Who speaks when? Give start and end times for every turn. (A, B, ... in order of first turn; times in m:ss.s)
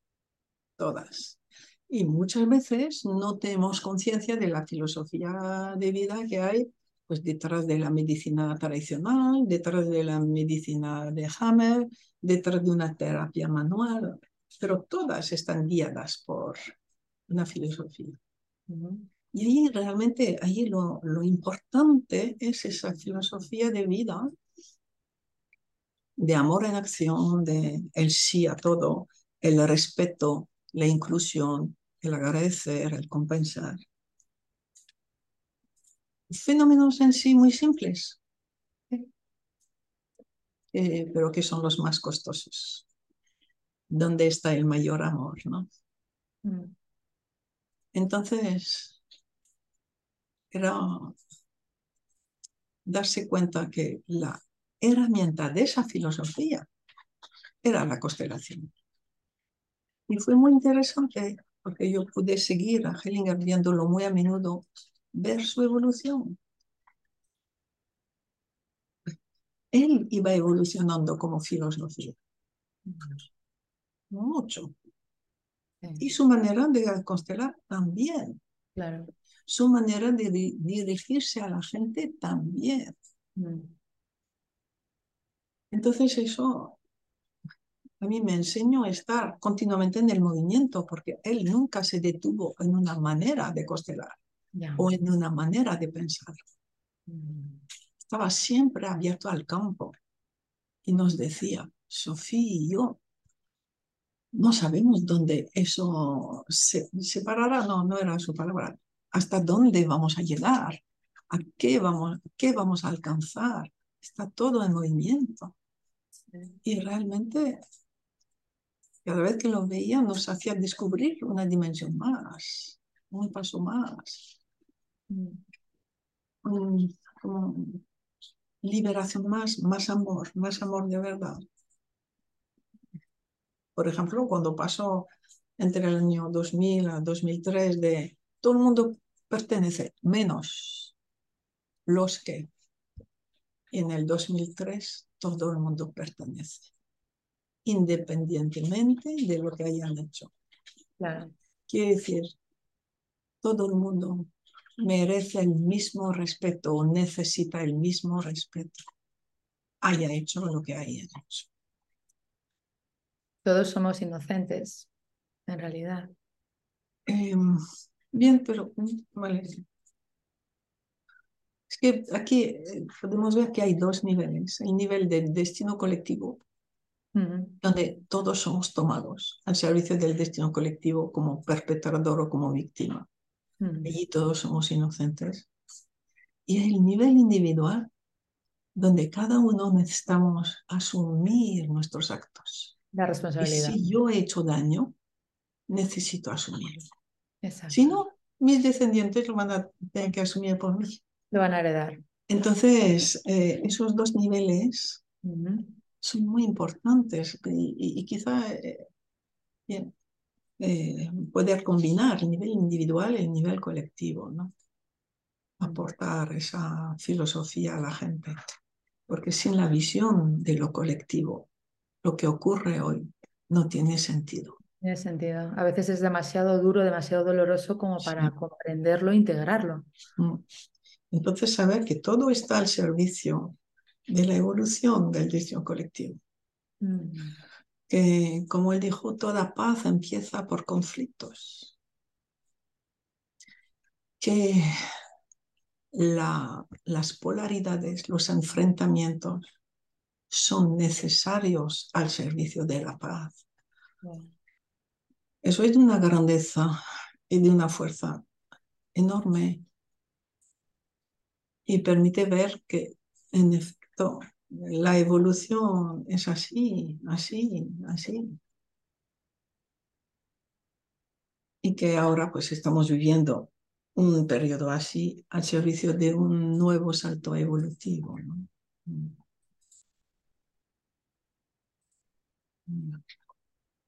0:00.8-0:16.7 A
0:17.3-0:18.2 A
0:18.7-0:19.1 B
0:19.3-0:24.3 A
0:26.2-0:33.8 A
0:36.3-0:38.2 A
0:40.7-0:42.9 A
0:43.9-0:45.7 A
0:46.4-0:46.7 B
0:47.9-0:49.0 A
0:50.5-0:51.2 A
0:52.8-0:56.7 A
0:57.6-0:58.7 A
1:00.1-1:06.4 A
1:09.7-1:12.2 A
1:12.9-1:13.2 B
1:14.1-1:14.7 A
1:16.0-1:18.4 A
1:18.8-1:19.1 B
1:19.5-1:23.0 A
1:23.4-1:23.7 B
1:25.7-1:26.8 A
1:28.0-1:34.2 A
1:34.6-1:34.9 B
1:34.8-1:36.4 A
1:37.1-1:37.6 B
1:38.0-1:40.0 A
1:40.8-1:43.0 A
1:44.3-1:55.5 A
1:56.6-1:57.6 A
1:59.0-2:04.4 A
2:05.1-2:05.4 B
2:06.4-2:07.8 A
2:08.6-2:11.4 A
2:13.8-2:21.0 A
2:21.9-2:22.5 A
2:23.7-2:26.7 A
2:27.6-2:30.3 A
2:31.0-2:31.3 B
2:31.7-2:32.4 A
2:33.4-2:38.8 A
2:39.8-2:41.5 A
2:43.4-2:44.9 B
2:45.5-2:46.1 B
2:47.1-2:49.6 A
2:51.7-2:56.4 A
2:57.2-2:57.6 B
2:57.6-3:03.1 A
3:03.6-3:03.9 B
3:03.8-3:05.5 A
3:06.5-3:07.9 A
3:08.8-3:12.8 A
3:12.9-3:13.8 B
3:13.4-3:15.0 A
3:15.7-3:16.9 A
3:17.4-3:18.0 B
3:17.7-3:21.0 A
3:21.3-3:22.0 B
3:22.3-3:25.0 A
3:25.2-3:25.8 B
3:26.0-3:28.9 A
3:30.6-3:34.5 A
3:35.6-3:38.4 A
3:39.1-3:41.5 A
3:42.0-3:44.6 A
3:44.8-3:49.9 B
3:48.0-3:48.3 A
3:50.2-3:50.4 A
3:51.1-3:53.6 A
3:54.1-3:56.2 A
3:56.8-3:57.4 B
3:57.9-4:01.8 A
4:04.2-4:04.8 A
4:05.9-4:09.4 A
4:10.3-4:13.4 A
4:14.0-4:14.3 B
4:15.4-4:16.8 A
4:17.3-4:18.2 A
4:18.9-4:19.6 A
4:21.7-4:28.4 A
4:31.6-4:39.2 A
4:42.7-4:43.0 A